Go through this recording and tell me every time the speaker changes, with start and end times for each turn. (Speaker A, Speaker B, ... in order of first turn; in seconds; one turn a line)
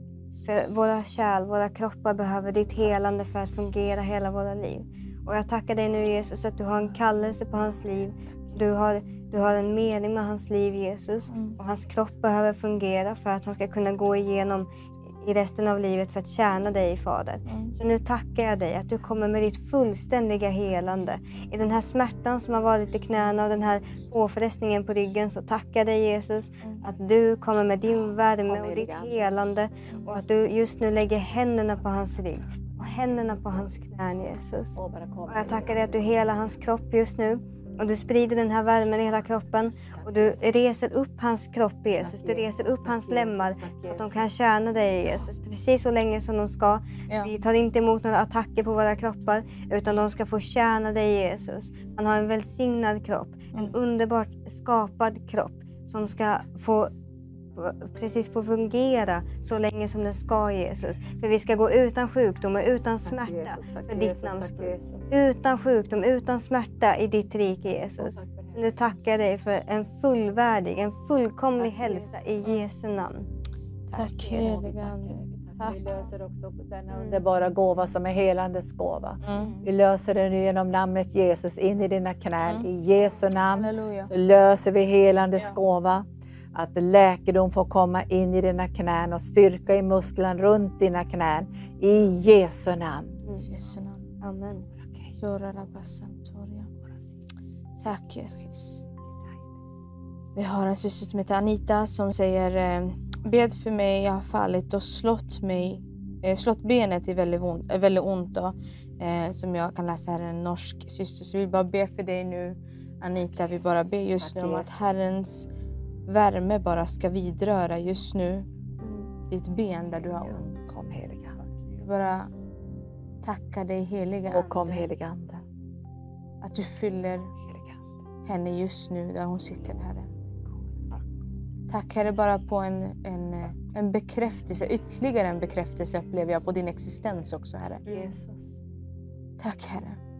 Speaker A: 0.4-14.7
Speaker B: 11.3-11.6
Speaker A: 15.2-56.9
Speaker B: 17.5-17.7
Speaker C: 28.4-29.6
Speaker C: 34.7-36.2
Speaker C: 39.8-40.4
Speaker C: 42.0-44.3
Speaker A: 57.5-73.3
Speaker C: 62.9-65.1
Speaker C: 68.0-69.0
Speaker C: 71.5-72.5
Speaker C: 73.9-93.2
Speaker B: 73.9-75.9
Speaker A: 76.9-77.2
Speaker B: 79.2-79.6
Speaker B: 83.5-84.1
Speaker B: 93.5-94.1
Speaker A: 94.2-94.7
Speaker B: 95.2-96.7
Speaker B: 97.8-98.8
Speaker B: 100.3-115.5
Speaker C: 113.1-114.8
Speaker B: 116.1-118.5
Speaker A: 118.8-119.1
Speaker B: 119.2-120.6
Speaker C: 120.1-121.4
Speaker B: 121.8-122.3
Speaker B: 123.2-124.8
Speaker C: 124.3-125.4
Speaker B: 126.4-127.3
Speaker C: 127.5-127.8
Speaker B: 128.2-130.1
Speaker B: 131.7-137.9
Speaker C: 137.8-138.5
Speaker B: 139.4-140.0